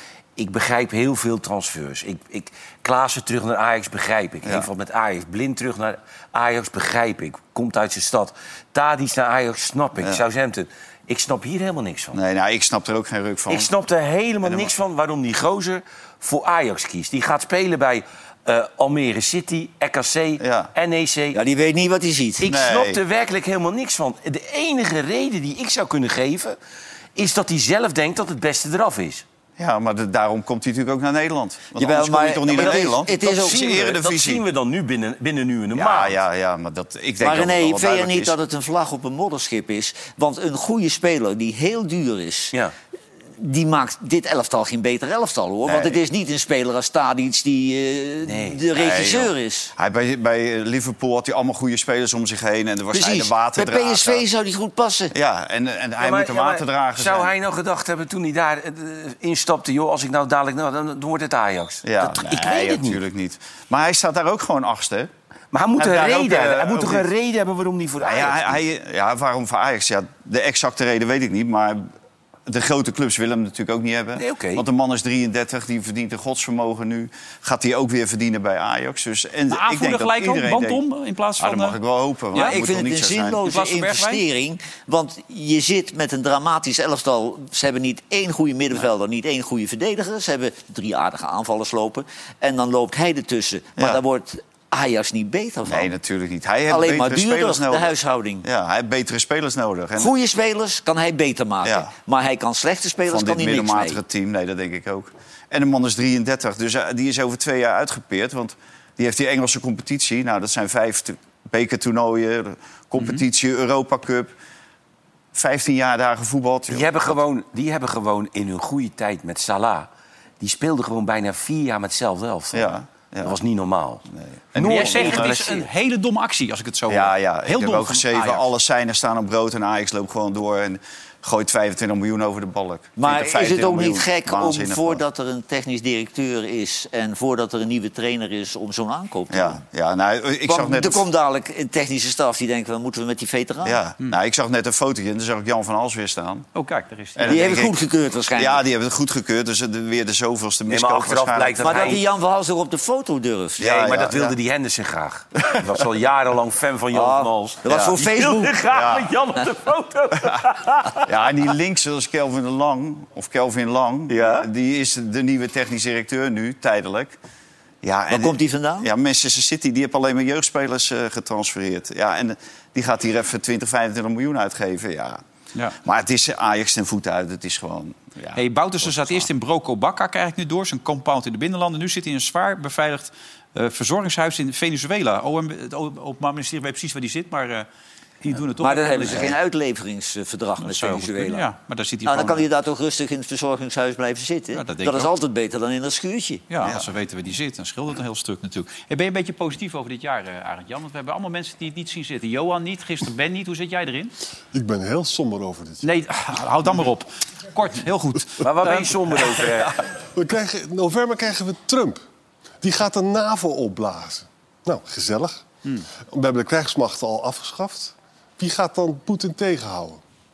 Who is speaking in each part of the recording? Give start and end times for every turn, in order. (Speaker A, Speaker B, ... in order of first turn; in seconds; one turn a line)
Speaker A: 0.4-12.2
Speaker B: 12.1-13.7
Speaker A: 13.5-21.4
Speaker B: 14.4-14.7
Speaker B: 20.4-20.7
Speaker C: 21.3-22.5
Speaker A: 22.4-26.6
Speaker B: 22.4-23.0
Speaker A: 27.2-29.2
Speaker B: 29.6-34.4
Speaker C: 31.8-33.9
Speaker A: 32.5-36.2
Speaker B: 35.8-38.4
Speaker C: 37.2-42.5
Speaker C: 43.4-49.7
Speaker B: 45.7-46.0
Speaker A: 48.2-48.6
Speaker B: 48.7-54.3
Speaker C: 52.9-55.1
Speaker B: 55.1-57.3
Speaker A: 56.0-63.0
Speaker B: 61.8-65.1
Speaker A: 65.5-68.6
Speaker B: 65.8-67.1
Speaker B: 68.0-71.9
Speaker B: 72.5-80.8
Speaker A: 74.2-74.6
Speaker D: 79.5-81.8
Speaker B: 81.4-83.5
Speaker C: 82.4-95.9
Speaker D: 83.5-84.2
Speaker B: 95.7-100.1
Speaker C: 96.7-98.5
Speaker C: 100.0-104.0
Speaker B: 101.6-101.9
Speaker B: 103.1-114.3
Speaker D: 113.0-113.2
Speaker B: 115.3-117.1
Speaker A: 116.7-119.9
Speaker A: 120.4-124.0
Speaker B: 122.5-123.4
Speaker B: 124.1-125.6
Speaker A: 124.6-125.5
Speaker D: 124.6-128.4
Speaker B: 126.9-135.0
Speaker C: 133.0-139.6
Speaker B: 139.3-141.1
Speaker C: 140.5-143.8
Speaker B: 143.6-146.5
Speaker D: 146.5-147.5
Speaker B: 147.2-147.8
Speaker C: 147.3-148.6
Speaker B: 148.3-152.0
Speaker A: 150.7-152.0
Speaker C: 151.6-153.7
Speaker B: 153.6-154.4
Speaker A: 153.6-161.0
Speaker C: 156.9-158.6
Speaker B: 157.7-158.0
Speaker B: 158.7-159.1
Speaker B: 161.0-167.2
Speaker A: 164.1-164.5
Speaker B: 167.8-175.2
Speaker C: 168.1-168.9
Speaker B: 175.8-179.3
Speaker D: 178.3-187.7
Speaker D: 188.2-189.4
Speaker C: 188.6-191.5
Speaker D: 190.6-192.5
Speaker C: 192.1-196.4
Speaker D: 194.5-195.1
Speaker D: 196.5-204.1
Speaker E: 204.5-205.8
Speaker D: 205.8-209.1
Speaker A: 208.4-209.8
Speaker E: 210.2-212.0
Speaker E: 212.6-215.4
Speaker E: 216.1-220.0